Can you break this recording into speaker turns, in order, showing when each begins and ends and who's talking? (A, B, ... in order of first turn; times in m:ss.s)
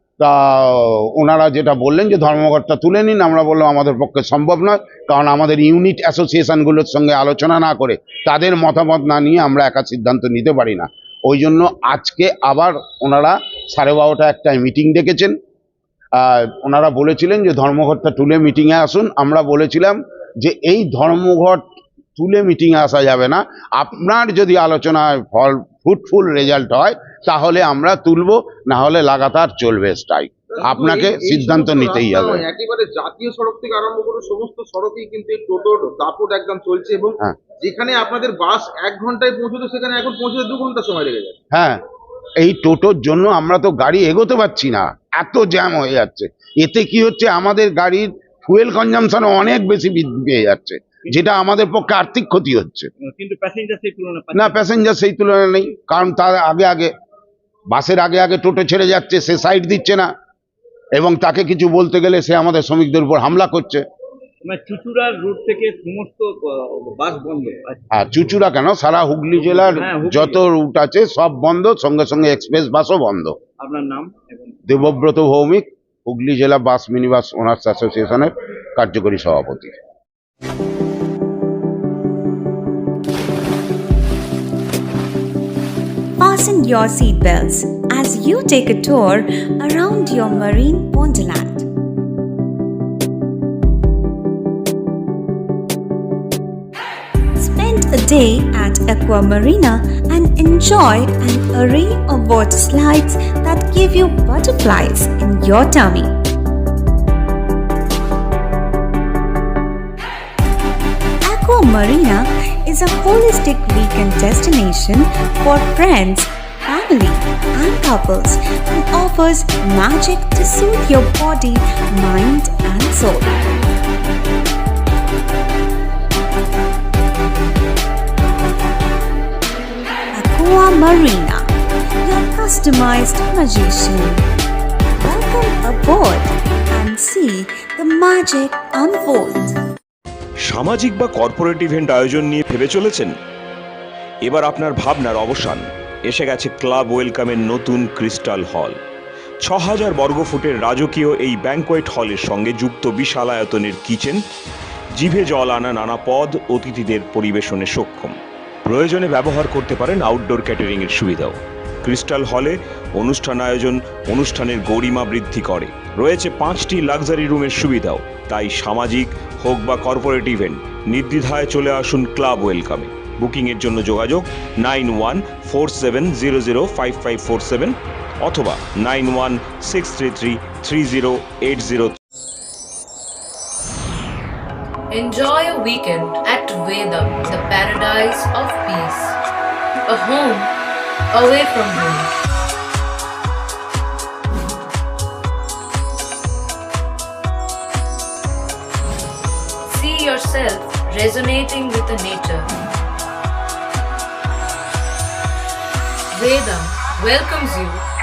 0:00.2-0:15.4 A
0:16.2-0:21.6 A
0:22.2-0:32.5 A
0:30.6-0:32.9 B
0:34.6-0:35.2 B
0:36.0-0:37.2 B
0:38.4-0:39.2 B
0:41.5-0:41.8 A
0:42.4-0:52.9 A
0:53.0-0:54.6 C
0:54.3-0:56.9 A
0:57.7-1:00.1 A
1:01.0-1:03.8 A
1:04.4-1:07.8 C
1:07.9-1:13.4 A
1:09.4-1:10.4 C
1:13.6-1:14.6 C
1:14.7-1:19.8 A
1:26.2-1:31.7 D
1:37.4-1:46.1 D
1:51.3-2:03.4 D
2:10.2-2:11.5 D
2:12.0-2:14.2 D
2:15.0-2:19.6 D
2:20.4-2:23.1 E
2:24.2-2:28.8 E
2:29.4-2:34.2 E
2:34.9-2:38.2 E
2:38.7-3:02.0 E
3:04.9-3:09.1 F
3:09.9-3:10.5 F
3:11.2-3:12.0 F
3:19.7-3:22.5 F
3:26.2-3:27.8 F